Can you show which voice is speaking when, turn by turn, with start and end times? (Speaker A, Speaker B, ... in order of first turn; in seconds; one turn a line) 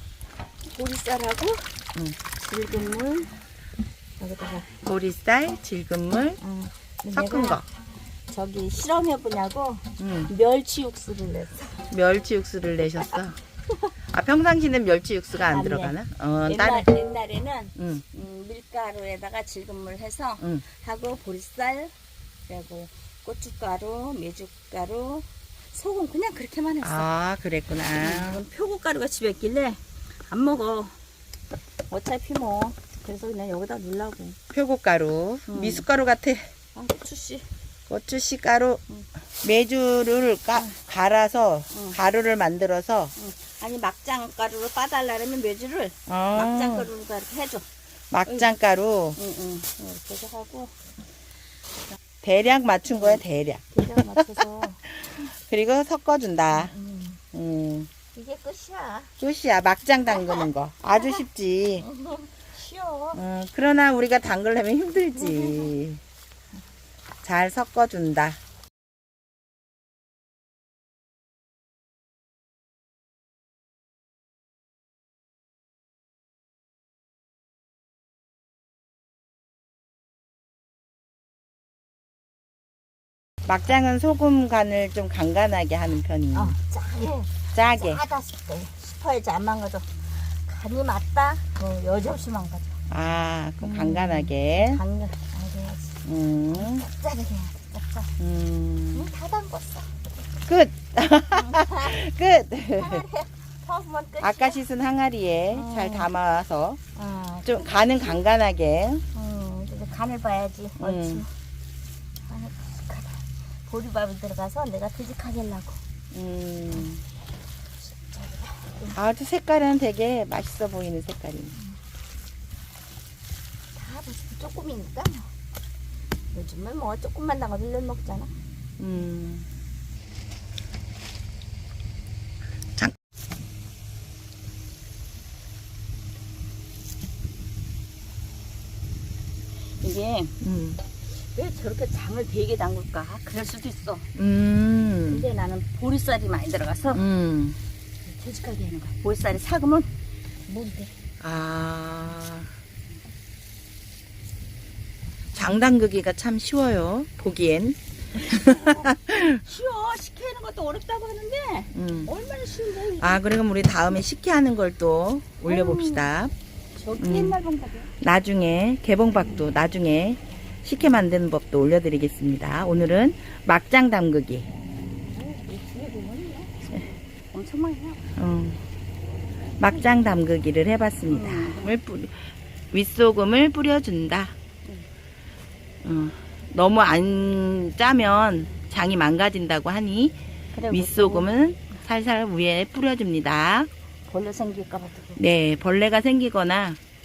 Speaker A: 0.7-1.7
Speaker A: 2.3-3.3
Speaker A: 4.2-4.7
Speaker B: 4.8-6.4
Speaker A: 6.4-7.7
Speaker B: 7.1-7.7
Speaker A: 8.3-11.9
Speaker B: 10.0-10.3
Speaker B: 11.9-13.4
Speaker B: 14.1-16.9
Speaker A: 15.4-21.9
Speaker B: 17.8-18.0
Speaker A: 22.5-27.1
Speaker B: 26.8-28.4
Speaker A: 28.0-30.9
Speaker A: 31.9-34.4
Speaker B: 34.5-36.5
Speaker A: 35.5-35.9
Speaker A: 36.7-37.5
Speaker B: 37.9-38.8
Speaker B: 39.4-43.1
Speaker A: 41.7-42.0
Speaker A: 43.2-47.7
Speaker B: 46.1-46.9
Speaker B: 48.1-49.2
Speaker A: 49.2-50.7
Speaker B: 52.2-54.2
Speaker A: 52.9-53.2
Speaker A: 53.7-54.8
Speaker B: 54.9-56.7
Speaker A: 56.5-57.2
Speaker B: 57.3-57.9
Speaker A: 58.1-59.1
Speaker B: 59.2-61.9
Speaker A: 60.1-61.2
Speaker A: 61.8-63.2
Speaker B: 63.1-66.0
Speaker A: 65.2-65.7
Speaker B: 67.2-68.4
Speaker B: 83.5-86.6
Speaker A: 86.3-92.8
Speaker B: 87.5-88.0
Speaker B: 92.9-94.8
Speaker A: 93.6-98.1
Speaker B: 96.0-96.9
Speaker B: 98.2-99.1
Speaker A: 98.9-100.0
Speaker B: 100.5-103.0
Speaker A: 101.3-102.0
Speaker A: 102.8-104.6
Speaker B: 104.2-106.8
Speaker A: 105.5-106.1
Speaker A: 107.0-107.8
Speaker B: 107.5-109.0
Speaker A: 109.1-111.3
Speaker B: 110.8-111.2
Speaker A: 112.3-115.8
Speaker B: 116.1-117.0
Speaker A: 117.9-119.0
Speaker B: 119.0-121.6
Speaker A: 123.8-125.3
Speaker A: 126.3-128.3
Speaker B: 128.8-129.5
Speaker A: 139.6-140.3
Speaker B: 140.4-140.8
Speaker A: 141.2-144.1
Speaker B: 144.2-145.3
Speaker A: 145.1-147.0
Speaker B: 146.9-147.6
Speaker A: 148.1-149.9
Speaker A: 150.5-150.9
Speaker B: 151.2-152.5
Speaker B: 155.3-159.4
Speaker A: 158.2-163.2
Speaker B: 161.7-162.1
Speaker B: 163.0-166.3
Speaker A: 165.4-166.1
Speaker A: 166.8-167.9
Speaker B: 167.0-167.4
Speaker B: 168.0-174.5
Speaker A: 175.1-176.5
Speaker A: 177.3-178.1
Speaker B: 178.2-178.6
Speaker B: 179.6-184.3
Speaker A: 179.7-179.9
Speaker A: 181.1-181.8
Speaker B: 185.8-190.2
Speaker A: 190.5-191.4
Speaker B: 190.7-193.7
Speaker A: 194.1-195.2
Speaker B: 195.2-196.8